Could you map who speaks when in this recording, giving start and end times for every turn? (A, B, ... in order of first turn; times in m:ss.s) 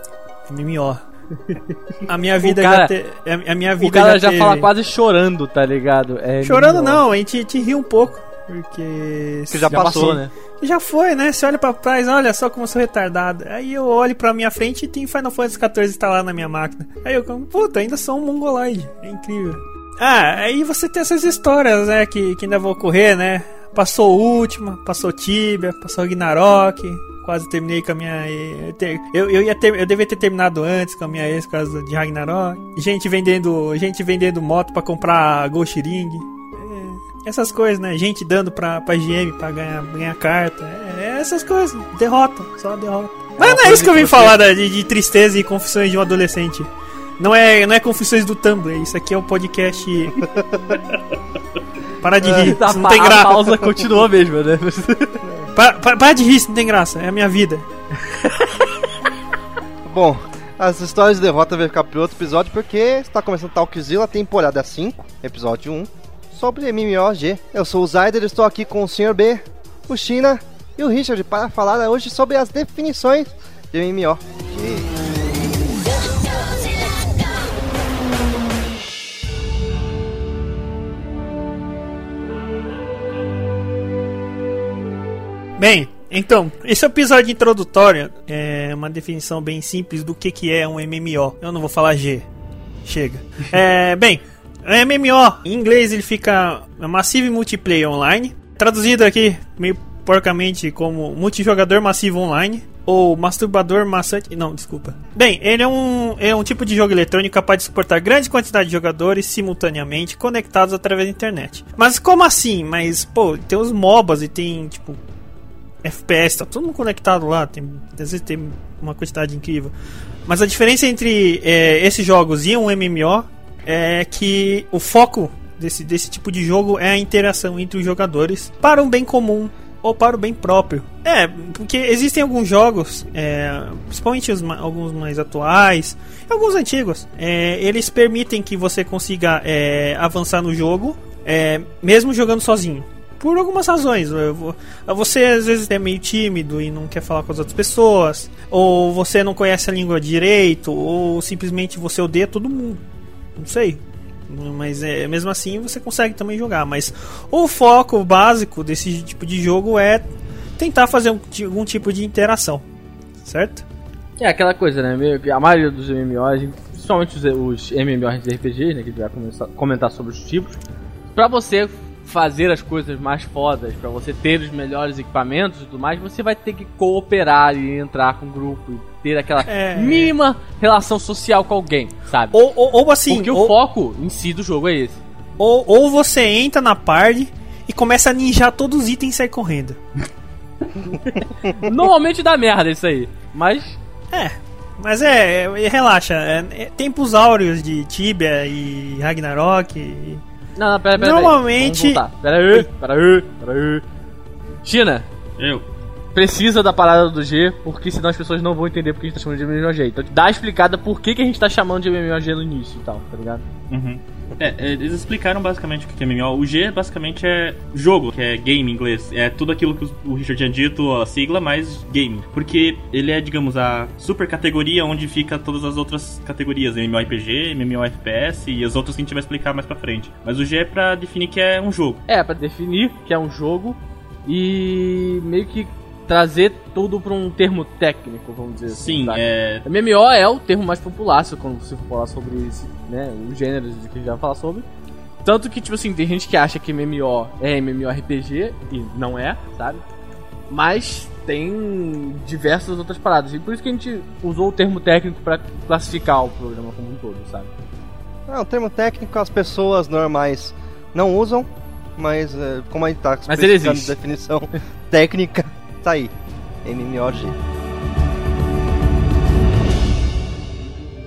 0:00.5-0:01.0 A
0:02.1-0:04.7 A
0:02.4-0:02.9 B
0:03.8-0:07.0 B
0:06.4-0:50.3 A
0:09.5-0:10.2 C
0:09.7-0:10.3 B
0:43.4-0:44.4 B
0:52.0-0:53.6 A
0:52.2-0:55.2 B
0:55.5-0:57.7 A
0:59.8-1:14.9 C
1:25.6-1:32.3 A
1:32.8-1:55.0 A
1:55.8-1:59.7 A
2:00.3-2:32.8 A
2:33.4-2:40.1 A
2:40.6-2:42.7 A
2:43.2-2:43.6 A
2:44.2-2:50.6 B
2:51.1-3:02.4 B
2:59.4-3:00.2 A
3:02.3-3:03.6 A
3:03.1-3:05.0 B
3:05.4-3:09.8 A
3:11.1-3:13.8 B
3:14.1-3:20.2 A
3:20.6-3:23.8 B
3:21.0-3:22.7 A
3:24.6-3:25.1 B
3:25.4-3:25.7 D
3:26.2-3:33.4 B
3:33.7-3:52.0 D
3:52.1-4:04.7 B
3:58.7-3:59.6 D
4:05.2-4:09.8 B
4:10.5-4:17.5 B
4:18.3-4:26.1 C
4:23.3-4:23.9 B
4:26.6-4:27.4 C